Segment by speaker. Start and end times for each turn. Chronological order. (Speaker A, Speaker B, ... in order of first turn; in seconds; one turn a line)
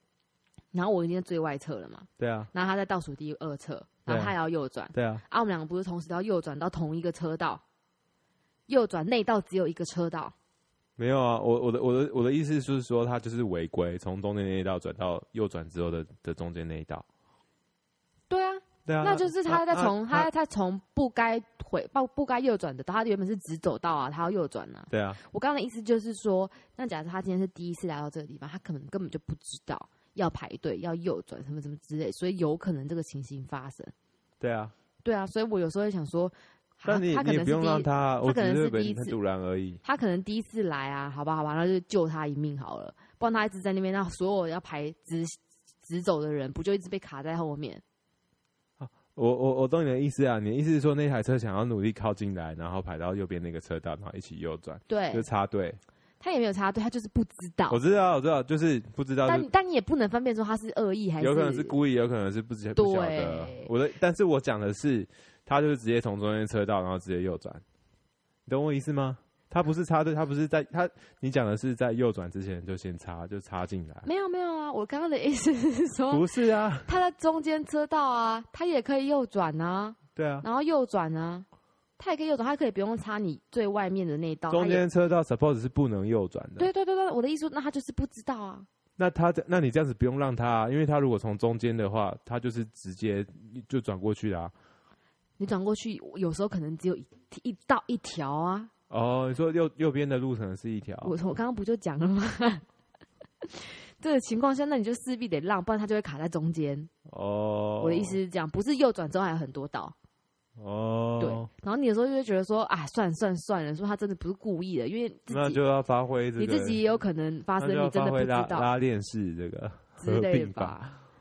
Speaker A: 0.7-7.6
Speaker B: 2.2-2.5
Speaker B: 4.1-4.3
Speaker B: 4.9-5.2
Speaker A: 8.7-10.3
Speaker B: 11.0-17.1
Speaker A: 18.3-33.9
Speaker B: 18.9-20.3
Speaker B: 24.9-25.2
Speaker B: 34.4-34.7
Speaker A: 35.0-39.2
Speaker B: 36.9-39.8
Speaker A: 39.8-47.8
Speaker B: 48.8-55.8
Speaker A: 54.9-55.3
Speaker A: 56.2-57.8
Speaker B: 57.7-59.5
Speaker A: 59.2-61.8
Speaker B: 61.2-67.6
Speaker A: 62.8-63.7
Speaker B: 68.5-74.1
Speaker A: 74.0-76.3
Speaker B: 76.1-76.9
Speaker A: 76.8-81.5
Speaker B: 80.2-80.5
Speaker A: 82.0-84.8
Speaker B: 84.5-86.7
Speaker A: 86.6-88.7
Speaker B: 89.0-94.5
Speaker A: 95.4-98.7
Speaker B: 98.9-101.1
Speaker A: 101.0-102.6
Speaker A: 103.4-106.9
Speaker B: 107.1-108.2
Speaker A: 107.8-110.0
Speaker B: 110.6-111.5
Speaker A: 111.2-115.6
Speaker B: 115.3-116.8
Speaker A: 116.4-118.7
Speaker B: 117.6-120.9
Speaker A: 120.0-121.0